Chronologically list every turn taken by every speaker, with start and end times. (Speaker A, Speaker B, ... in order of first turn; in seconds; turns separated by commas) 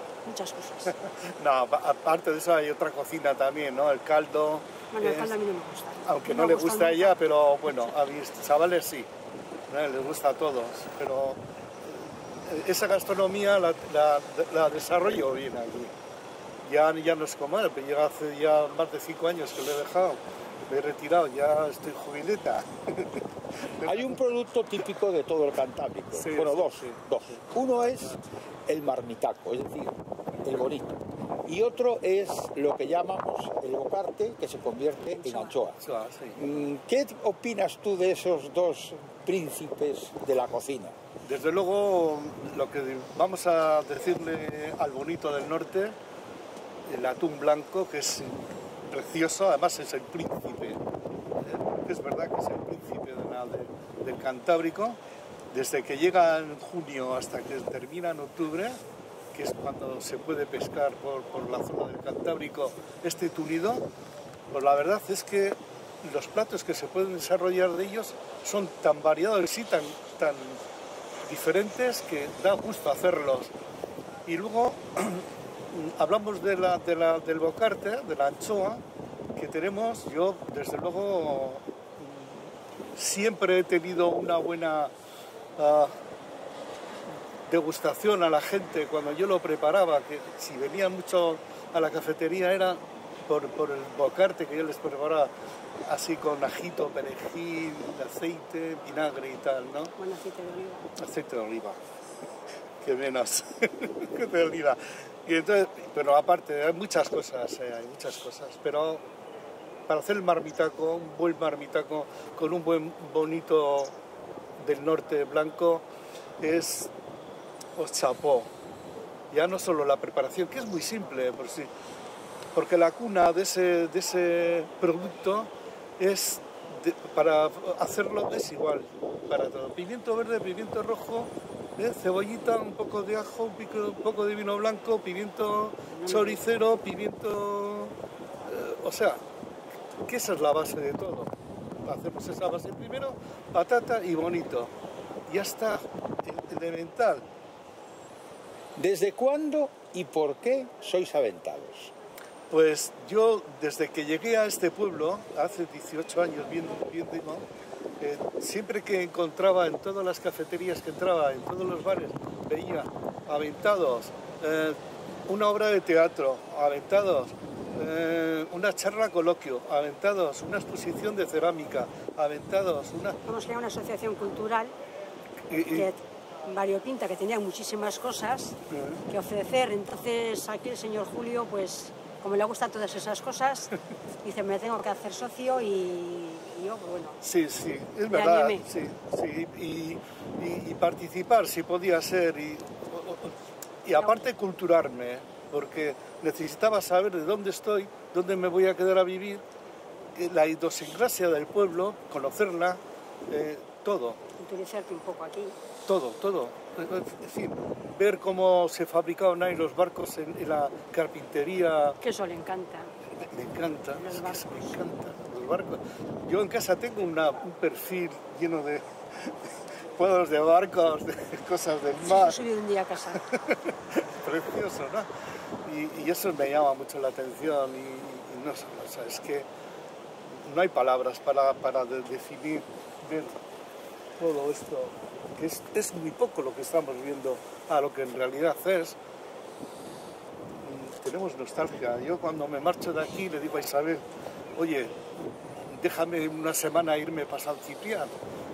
Speaker A: 0.2-1.0, Speaker B: 1.2-5.3, Speaker A: 4.9-7.1, Speaker B: 6.0-9.1, Speaker A: 7.7-7.9, Speaker B: 9.7-15.9, Speaker B: 16.6-24.2, Speaker C: 23.8-35.8, Speaker B: 26.1-28.1, Speaker A: 35.1-35.5, Speaker B: 35.8-36.4, Speaker C: 36.3-40.9, Speaker B: 41.2-46.0, Speaker B: 46.9-50.8, Speaker B: 51.4-55.0, Speaker B: 55.5-58.8, Speaker B: 59.3-63.8, Speaker B: 64.5-70.6, Speaker B: 71.2-73.5, Speaker B: 74.2-78.8, Speaker B: 79.3-84.9, Speaker B: 85.6-86.0, Speaker B: 87.5-95.3, Speaker B: 95.8-99.9, Speaker A: 100.0-100.9, Speaker B: 101.0-101.8, Speaker B: 102.8-109.0, Speaker B: 109.9-114.0, Speaker B: 114.6-115.8, Speaker B: 116.4-116.9, Speaker B: 117.8-118.5, Speaker B: 119.3-121.7, Speaker B: 122.5-139.2, Speaker A: 135.9-136.4, Speaker B: 140.0-141.3, Speaker B: 141.8-144.7, Speaker B: 145.3-147.2, Speaker C: 148.8-151.9, Speaker B: 152.5-157.4, Speaker B: 158.0-173.2, Speaker A: 173.2-174.7, Speaker B: 175.5-175.9, Speaker A: 175.7-178.6, Speaker B: 178.7-179.0, Speaker A: 179.1-187.2, Speaker B: 187.2-199.4, Speaker A: 188.1-188.6, Speaker A: 193.9-194.3, Speaker B: 200.1-204.2, Speaker A: 204.4-205.6, Speaker B: 205.9-212.0, Speaker A: 212.0-212.9, Speaker B: 213.2-219.3, Speaker A: 214.0-214.8, Speaker B: 219.9-222.4, Speaker A: 222.0-223.3, Speaker B: 223.4-225.1, Speaker B: 225.6-229.4, Speaker B: 230.3-233.4, Speaker B: 234.2-239.0, Speaker B: 240.6-244.0, Speaker B: 244.6-245.1, Speaker B: 245.7-248.1